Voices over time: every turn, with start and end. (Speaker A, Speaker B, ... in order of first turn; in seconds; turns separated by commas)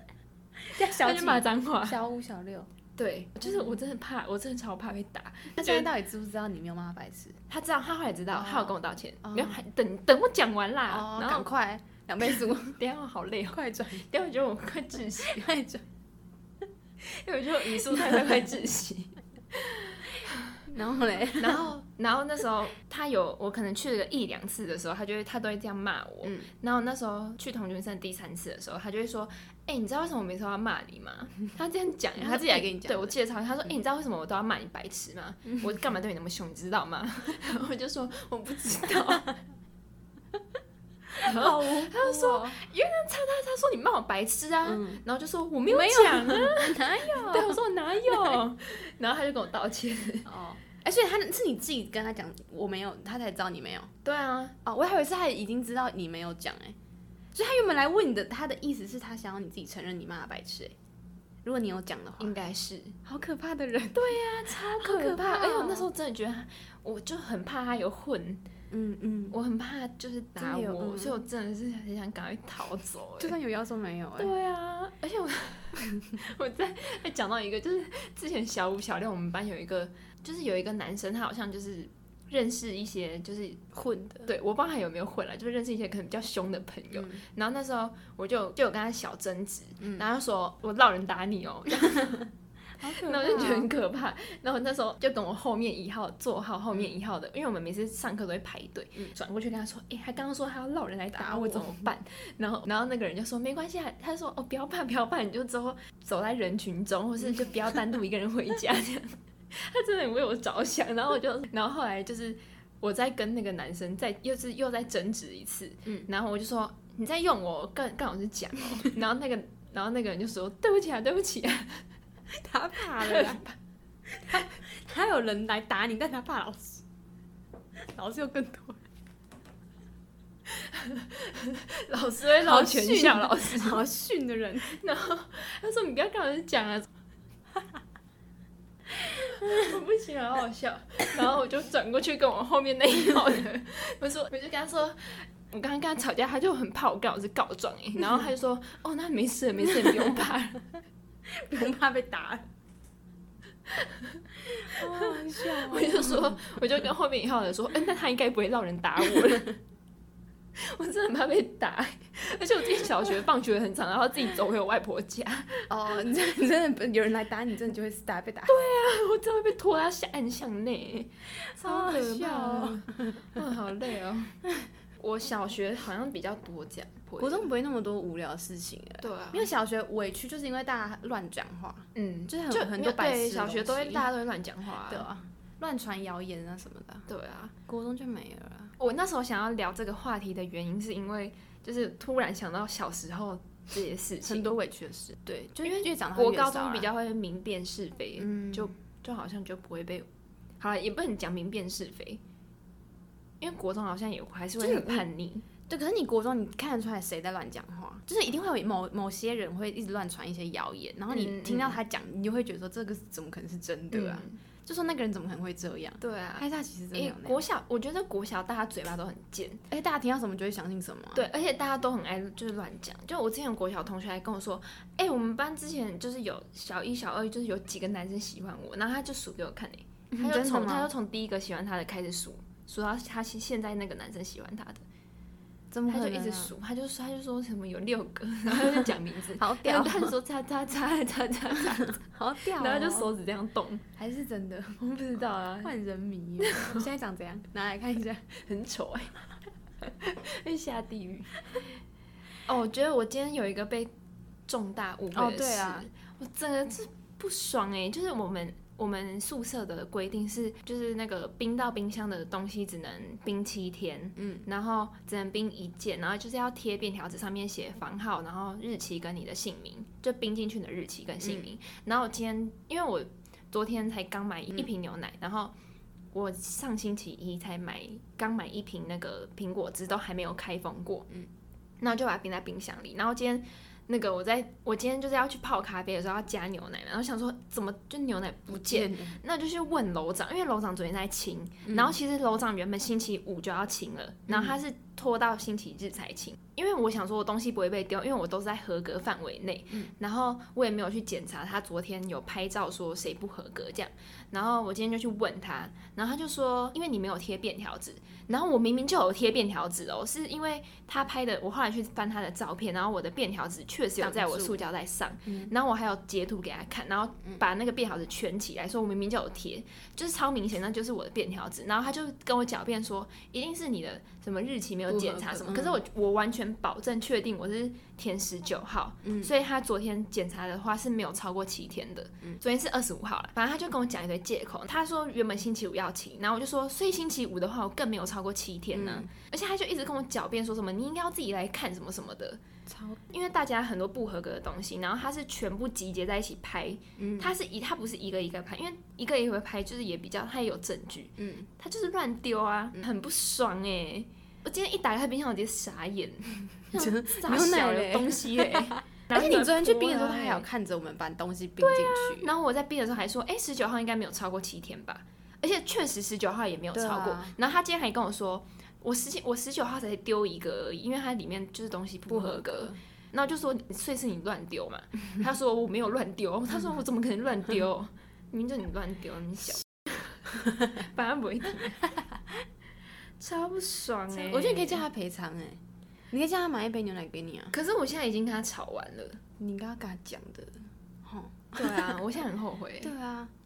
Speaker A: 0.7-2.7, Speaker B: 0.8-2.0, Speaker B: 3.0-5.9, Speaker A: 3.5-3.8, Speaker A: 5.5-7.4, Speaker B: 7.5-11.5, Speaker A: 8.3-9.6, Speaker A: 10.9-12.8, Speaker B: 12.2-15.5, Speaker A: 13.5-14.1, Speaker A: 15.2-15.8, Speaker B: 17.0-20.5, Speaker A: 20.7-21.7, Speaker B: 21.4-39.4, Speaker A: 32.2-33.1, Speaker A: 41.2-42.6, Speaker B: 41.2-50.3, Speaker A: 44.6-45.0, Speaker A: 45.7-48.4, Speaker A: 50.3-53.9, Speaker B: 54.0-54.5, Speaker A: 54.6-56.8, Speaker A: 57.3-60.8, Speaker A: 61.4-62.4, Speaker B: 62.2-63.0, Speaker A: 63.0-64.2, Speaker B: 63.9-68.4, Speaker A: 64.8-65.9, Speaker A: 68.7-69.4, Speaker B: 69.3-73.3, Speaker A: 70.4-71.2, Speaker A: 73.2-74.3, Speaker B: 74.2-83.6, Speaker A: 83.7-84.3, Speaker B: 84.3-92.3, Speaker A: 86.9-87.2, Speaker A: 92.8-93.7, Speaker B: 92.8-121.8, Speaker A: 101.2-101.9, Speaker A: 122.3-123.4, Speaker B: 123.0-123.5, Speaker A: 124.1-126.8, Speaker A: 127.9-128.8, Speaker B: 130.6-133.8, Speaker A: 132.4-134.8, Speaker B: 134.7-136.9, Speaker B: 139.2-150.7, Speaker A: 151.3-152.5, Speaker B: 153.7-154.2, Speaker A: 154.6-156.4, Speaker B: 154.7-159.6, Speaker B: 160.6-165.7, Speaker A: 165.7-168.6, Speaker B: 168.5-174.3, Speaker A: 171.6-173.2, Speaker B: 175.0-177.4, Speaker A: 177.2-184.1, Speaker B: 179.0-179.5, Speaker B: 181.9-185.1, Speaker A: 184.9-187.1, Speaker B: 187.1-187.5, Speaker A: 187.7-188.7, Speaker B: 188.8-194.5, Speaker A: 194.2-196.9, Speaker B: 195.6-200.1, Speaker A: 198.2-198.7, Speaker B: 200.6-202.2, Speaker B: 203.4-205.4, Speaker A: 204.6-205.1, Speaker A: 205.7-217.4, Speaker B: 211.1-211.8, Speaker B: 213.9-214.4, Speaker B: 216.0-219.6, Speaker A: 219.7-221.3, Speaker B: 221.2-234.8, Speaker A: 230.1-230.9, Speaker A: 235.7-236.5, Speaker B: 235.9-242.0, Speaker A: 239.4-240.1, Speaker A: 242.0-243.1, Speaker B: 242.6-243.8, Speaker A: 244.0-244.8, Speaker B: 244.8-245.7, Speaker A: 245.6-248.2, Speaker B: 246.4-246.9, Speaker B: 248.4-249.1, Speaker B: 249.8-251.7, Speaker B: 252.5-253.9, Speaker B: 254.5-275.5, Speaker A: 255.1-255.9, Speaker A: 264.2-264.5, Speaker A: 271.2-271.5, Speaker B: 276.1-281.1, Speaker B: 281.8-342.4, Speaker A: 288.5-289.2, Speaker A: 291.7-292.0, Speaker A: 294.3-294.6, Speaker A: 314.0-314.6, Speaker A: 315.3-315.5, Speaker A: 324.9-325.8, Speaker A: 329.0-329.3, Speaker A: 338.7-339.1, Speaker A: 342.7-343.0, Speaker B: 343.1-360.4, Speaker A: 347.0-347.3, Speaker A: 351.2-351.5, Speaker A: 356.7-362.3, Speaker B: 361.6-381.9, Speaker A: 366.7-367.3, Speaker A: 372.1-372.8, Speaker B: 383.2-384.8, Speaker A: 384.1-385.6, Speaker A: 386.1-387.5, Speaker B: 387.5-389.2, Speaker A: 389.4-392.0, Speaker B: 391.6-392.9, Speaker A: 392.8-393.3